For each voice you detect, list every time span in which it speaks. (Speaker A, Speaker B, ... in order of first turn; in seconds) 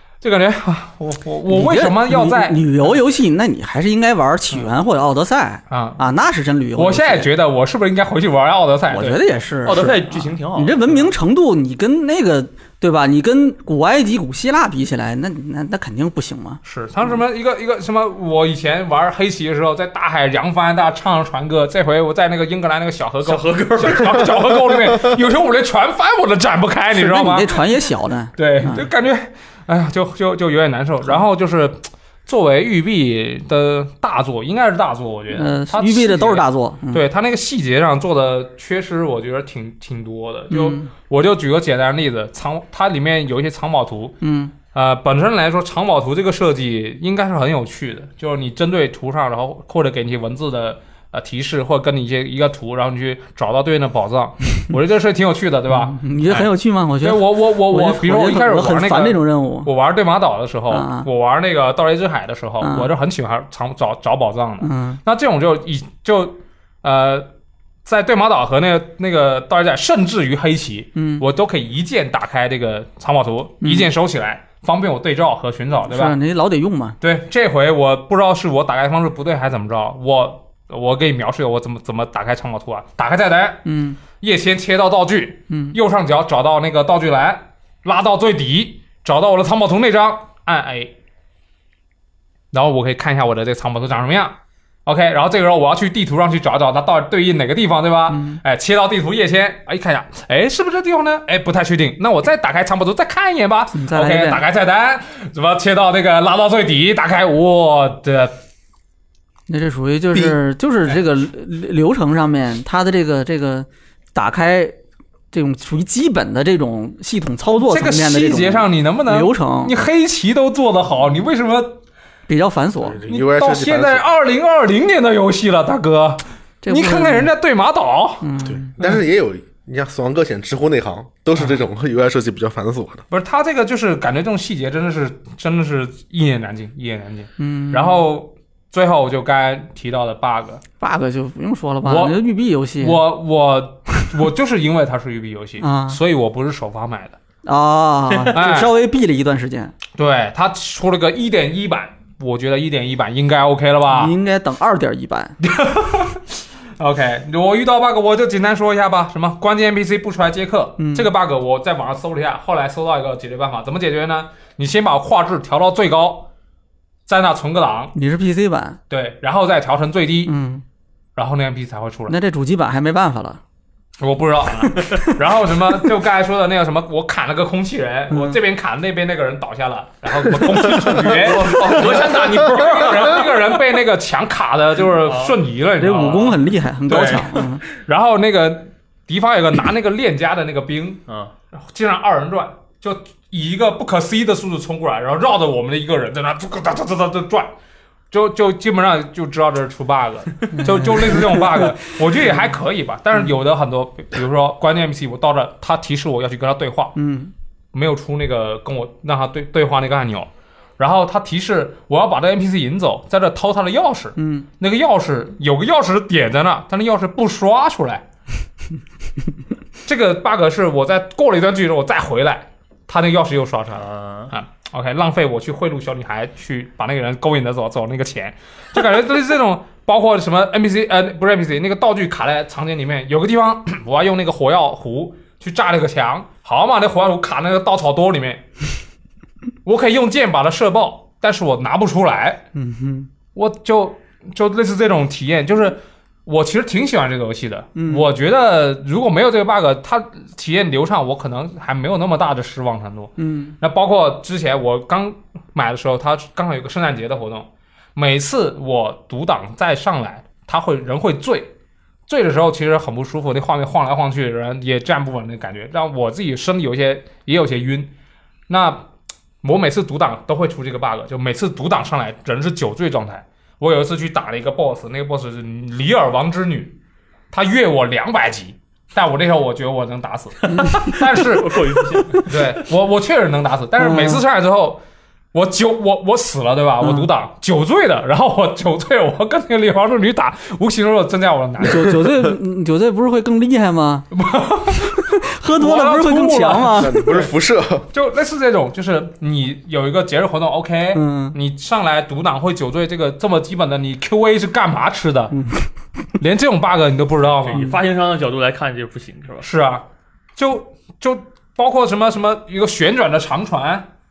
Speaker A: 0.2-2.7, 5.7-6.0, 6.8-9.2, 16.6-27.6, 28.4-44.2, 44.7-56.5, 57.0-67.3, 67.8-76.1, 77.0-83.6, 84.2-90.9, 92.5-108.3, 117.6-121.8, 123.1-129.0, 133.1-140.6, 141.8-142.2, 142.8-147.2, 148.3-148.7, 149.9-154.1, 155.4-166.3, 167.1-167.9, 168.9-170.3, 171.2-172.1, 174.0-197.5, 198.1-207.0, 207.7-218.0, 219.8-238.4, 239.6-242.4, 243.3-261.5, 262.1-267.9, 268.5-268.8, 269.4-276.7, 277.3-284.8, 285.3-292.2, 294.1-297.3, 297.9-305.3, 306.2-307.7, 309.4-309.8, 310.4-313.9
Speaker B: 1.5-7.3, 8.9-16.6, 26.9-28.9, 35.3-37.0, 40.5-40.9, 44.2-44.5, 55.7-59.7, 60.7-61.1, 62.6-62.9, 64.6-65.0, 71.0-71.2, 73.6-73.9, 75.9-77.0, 83.6-84.0, 85.5-85.8, 98.1-98.4, 103.7-104.4, 109.5-114.8, 115.3-119.7, 122.3-123.0, 126.6-127.3, 128.2-128.7, 137.4-138.0, 140.8-143.0, 145.6-146.0, 147.4-149.7, 153.9-155.3, 160.8-161.1, 167.9-168.8, 170.2-170.6, 172.1-173.4, 174.7-175.2, 178.1-178.4, 185.8-187.6, 200.6-201.6, 206.9-207.3, 214.2-214.5, 242.5-243.1, 247.8-248.1, 253.2-253.5, 280.5-281.0, 283.8-284.2, 286.8-287.1, 291.6-294.1, 294.8-297.0, 300.9-301.4, 305.3-305.6
Speaker C: 9.6-11.1, 23.2-24.6, 180.6-183.5, 185.0-186.3, 191.1-191.3, 223.7-224.3, 280.6-282.3, 307.4-309.4
Speaker D: 122.8-124.0, 128.5-133.0, 296.8-297.9